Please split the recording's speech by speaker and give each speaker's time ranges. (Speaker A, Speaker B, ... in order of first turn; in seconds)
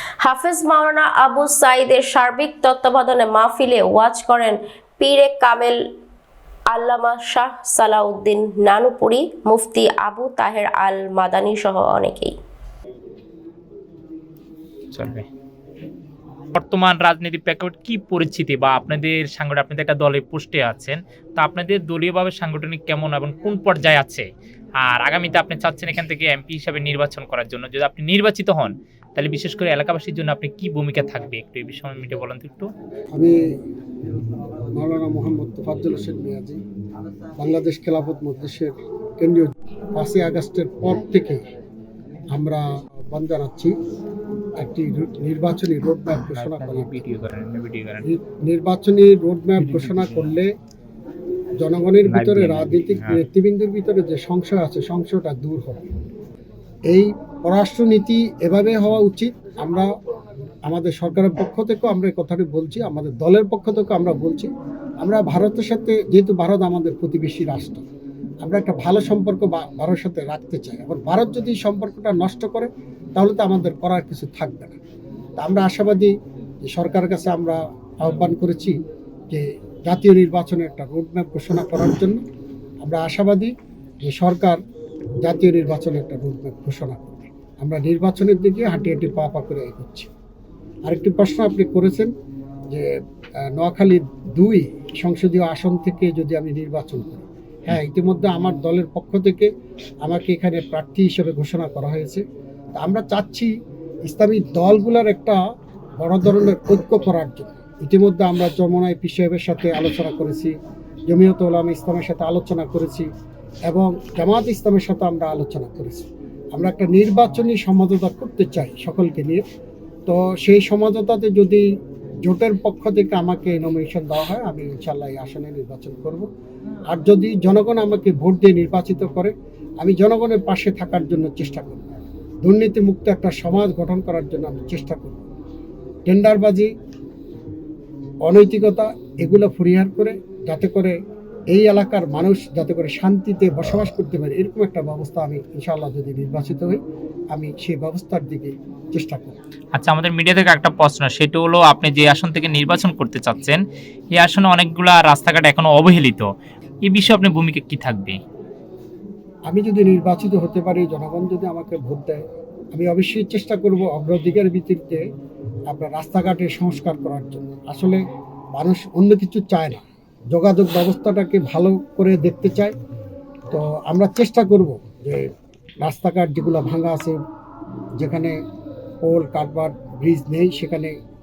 Speaker A: 0.2-5.8, 6.7-12.3
Speaker B: 14.9-15.2, 16.5-24.2, 24.8-32.7, 46.3-48.1, 49.6-50.3, 52.0-53.2, 149.7-153.6, 154.1-156.3, 156.8-158.2
Speaker C: 34.8-36.6, 37.4-41.4, 42.3-43.7, 44.6-47.0, 48.0-50.5, 51.6-55.9, 56.9-59.9, 60.7-64.5, 65.0-67.9, 68.4-74.8, 75.4-76.1, 76.6-78.8, 79.3-82.2, 82.8-84.6, 85.2-90.1, 90.8-92.1, 93.5-99.5, 100.0-102.2, 102.8-103.5, 104.1-105.4, 106.0-110.5, 111.1-113.1, 113.7-119.4, 120.1-121.6, 122.2-126.3, 126.9-131.9, 132.4-135.2, 136.1-136.7, 138.2-140.9, 141.5-146.8, 147.3-149.3, 159.5-162.2, 162.7-165.0, 165.7-168.0, 168.6-172.8, 173.5-175.3, 175.8-177.2, 178.0-178.3, 179.0-180.9